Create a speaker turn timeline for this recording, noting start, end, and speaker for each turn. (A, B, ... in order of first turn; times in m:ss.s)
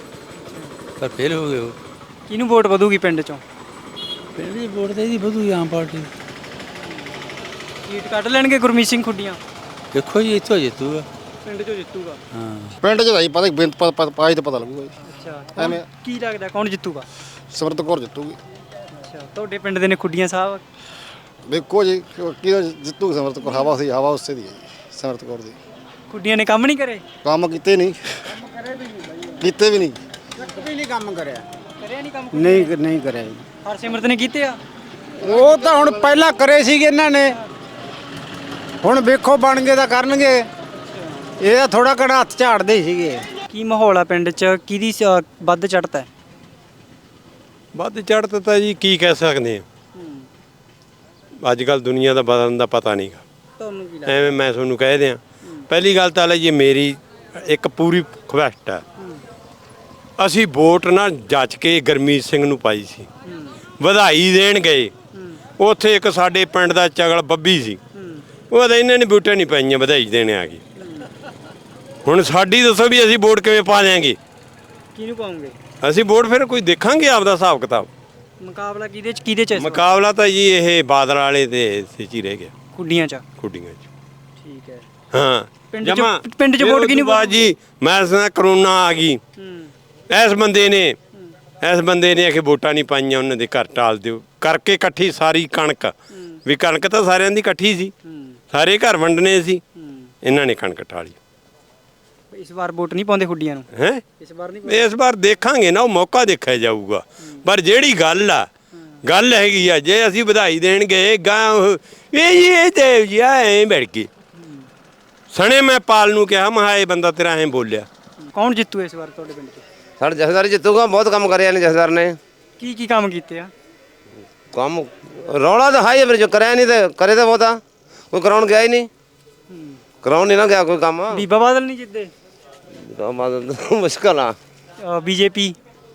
0:00.4-0:00.8 A
0:01.0-0:01.8 B
0:02.3-0:03.4 A
0:04.4-0:06.1 B
0:06.8-0:07.2 A
0:07.9-0:09.4 A
0:09.9-0:11.1 B
0:11.4-0:12.2 A
0:12.3-0:12.7 B
0:12.8-0:14.9 C
0:15.0-0:17.1 A
0:15.6-0:15.8 C
0:17.5-0:18.4 C
0:19.0-0:20.6 A
0:21.5-0:25.6 C
0:26.1-0:27.0 A
0:27.2-0:28.0 C
0:29.4-0:30.0 C
0:30.4-0:31.4 D
0:31.8-0:32.8 A
0:32.3-0:33.4 D
0:33.6-0:34.6 A
0:35.2-0:37.4 D
0:38.8-0:40.5 D
0:41.4-0:43.2 D
0:43.5-0:46.1 A
0:47.7-0:49.6 E
0:50.0-0:50.3 A
0:51.4-0:53.2 E
0:53.6-0:54.3 A
0:54.1-0:58.8 E
1:00.2-1:03.1 E
1:03.2-1:03.6 A
1:03.8-1:04.9 E
1:05.1-1:05.4 A
1:05.6-1:07.8 E
1:08.0-1:08.2 A
1:08.5-1:10.6 E
1:10.8-1:11.1 A
1:12.0-1:14.2 E
1:15.0-1:15.6 A
1:15.8-1:17.9 E
1:18.4-1:19.8 A
1:19.6-1:22.5 E
1:22.7-1:23.2 A
1:23.4-1:23.8 E
1:24.4-1:24.9 A
1:25.1-1:29.2 E
1:25.7-1:27.5 A
1:29.4-1:29.7 A
1:30.1-1:31.0 E
1:31.6-1:35.9 E
1:36.5-1:37.9 E
1:38.0-1:38.4 A
1:38.5-1:39.6 E
1:39.8-1:40.1 A
1:40.2-1:41.2 E
1:42.3-1:43.7 A
1:43.7-1:44.0 E
1:44.2-1:44.9 A
1:44.6-1:48.5 E
1:49.0-1:54.1 E
1:54.4-1:54.7 A
1:55.3-1:57.9 E
1:58.3-1:59.6 A
2:00.0-2:02.2 F
2:02.6-2:03.5 A
2:04.5-2:07.6 F
2:08.1-2:08.9 F
2:09.5-2:09.8 A
2:10.0-2:11.2 F
2:11.1-2:12.1 A
2:12.8-2:14.4 F
2:14.8-2:15.6 A